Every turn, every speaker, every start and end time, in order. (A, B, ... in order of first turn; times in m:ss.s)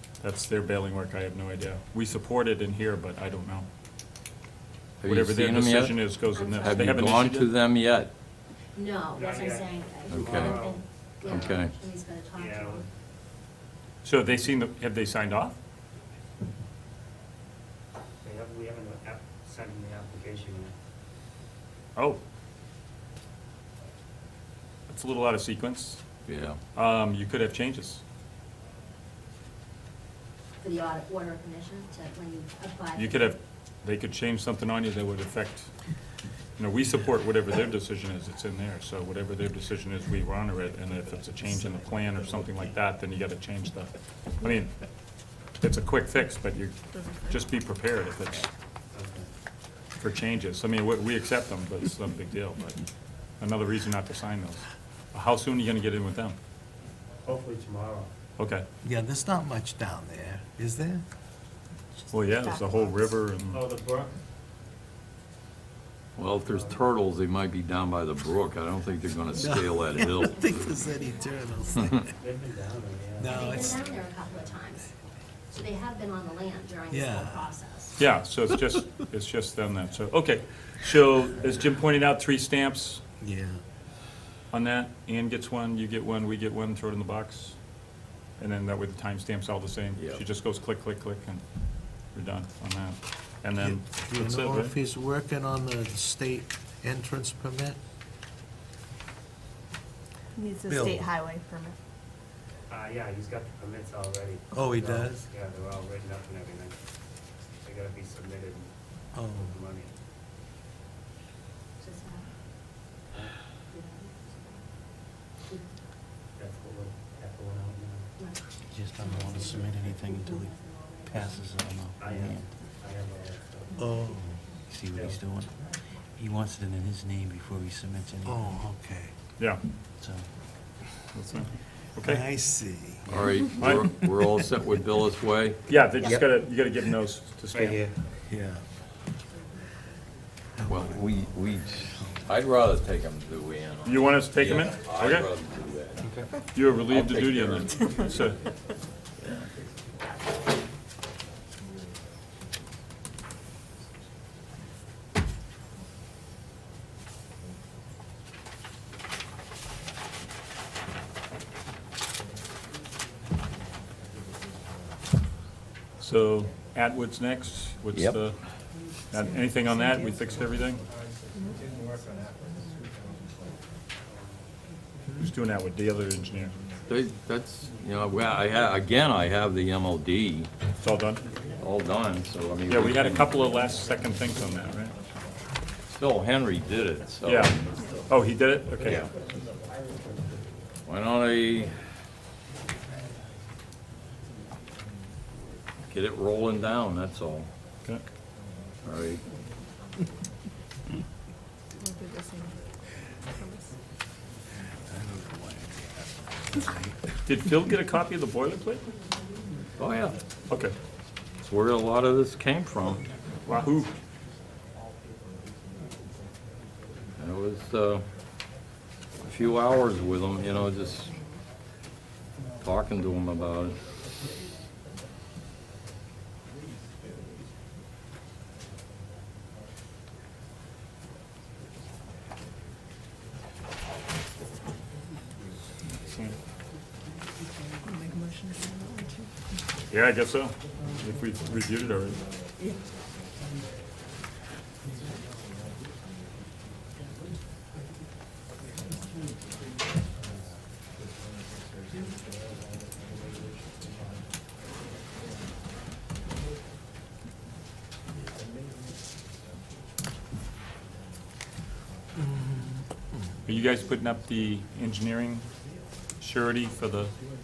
0:00.2-0:03.7 A
0:05.0-0:08.1 B
0:05.0-0:07.5 A
0:06.3-0:06.9 C
0:08.8-0:12.8 C
0:09.1-0:11.7 D
0:10.1-0:10.6 B
0:11.2-0:11.7 B
0:12.3-0:12.8 D
0:14.0-0:15.6 A
0:18.2-0:20.7 D
0:24.9-0:26.0 A
0:26.3-0:26.6 B
0:26.7-0:28.0 A
0:30.6-0:33.3 C
0:33.0-0:35.7 A
0:36.6-0:48.5 A
0:48.9-0:49.3 D
0:50.0-0:56.4 A
0:57.2-0:58.1 D
0:58.4-0:58.6 A
0:58.8-1:01.0 E
1:02.0-1:03.1 F
1:02.1-1:03.6 A
1:03.5-1:04.2 D
1:06.2-1:10.6 B
1:06.4-1:06.9 D
1:09.3-1:11.6 C
1:09.4-1:12.1 E
1:12.2-1:13.8 D
1:13.2-1:13.9 E
1:13.3-1:14.9 C
1:15.5-1:18.0 C
1:16.9-1:17.6 E
1:18.0-1:23.0 A
1:23.2-1:23.6 E
1:24.5-1:27.6 A
1:28.4-1:34.7 A
1:30.0-1:30.2 B
1:33.6-1:37.8 E
1:40.4-1:41.8 F
1:40.7-1:41.1 E
1:42.7-1:46.8 D
1:44.5-1:45.2 E
1:47.6-1:48.7 D
1:49.1-1:49.5 E
1:49.4-1:49.9 D
1:51.8-1:52.3 C
1:53.1-1:53.4 D
1:53.7-1:54.1 C
1:56.4-1:58.1 D
1:58.2-2:01.4 C
1:58.7-2:00.5 G
2:01.1-2:01.6 G
2:02.0-2:03.8 D
2:03.8-2:04.4 E
2:04.8-2:05.1 G
2:04.9-2:05.2 D
2:08.2-2:09.1 E
2:10.0-2:10.2 G
2:11.1-2:12.2 A
2:12.0-2:13.4 E
2:13.1-2:15.6 B
2:13.6-2:13.9 A
2:15.7-2:17.8 A
2:18.2-2:18.6 E
2:20.7-2:26.0 B
2:23.8-2:25.3 A
2:26.5-2:28.4 A
2:26.8-2:28.0 B
2:29.2-2:29.5 B
2:46.0-2:48.4 A
2:47.9-2:48.2 B
2:48.9-2:50.8 A
2:49.7-2:50.0 F
2:50.8-2:53.6 H
2:54.0-2:54.5 D
2:55.2-2:56.5 A
2:56.8-3:00.5 B
3:00.8-3:01.2 A
3:01.6-3:03.3 B
3:02.7-3:04.9 A
3:05.9-3:07.6 B
3:07.2-3:09.0 A
3:10.8-3:11.7 B
3:15.9-3:17.5 B
3:18.8-3:19.2 B
3:21.8-3:22.6 F
3:23.3-3:23.7 F
3:24.9-3:27.0 E
3:27.2-3:28.8 A
3:29.8-3:30.2 B
3:30.5-3:30.7 A
3:31.4-3:33.0 B
3:33.4-3:33.9 A
3:37.2-3:38.1 B
3:39.2-3:41.2 B
3:42.6-3:43.8 B
3:55.9-3:56.4 A
3:57.8-3:59.3 F
3:59.9-4:02.2 A
4:22.3-4:22.7 E
4:23.4-4:25.5 A
4:26.2-4:27.1 A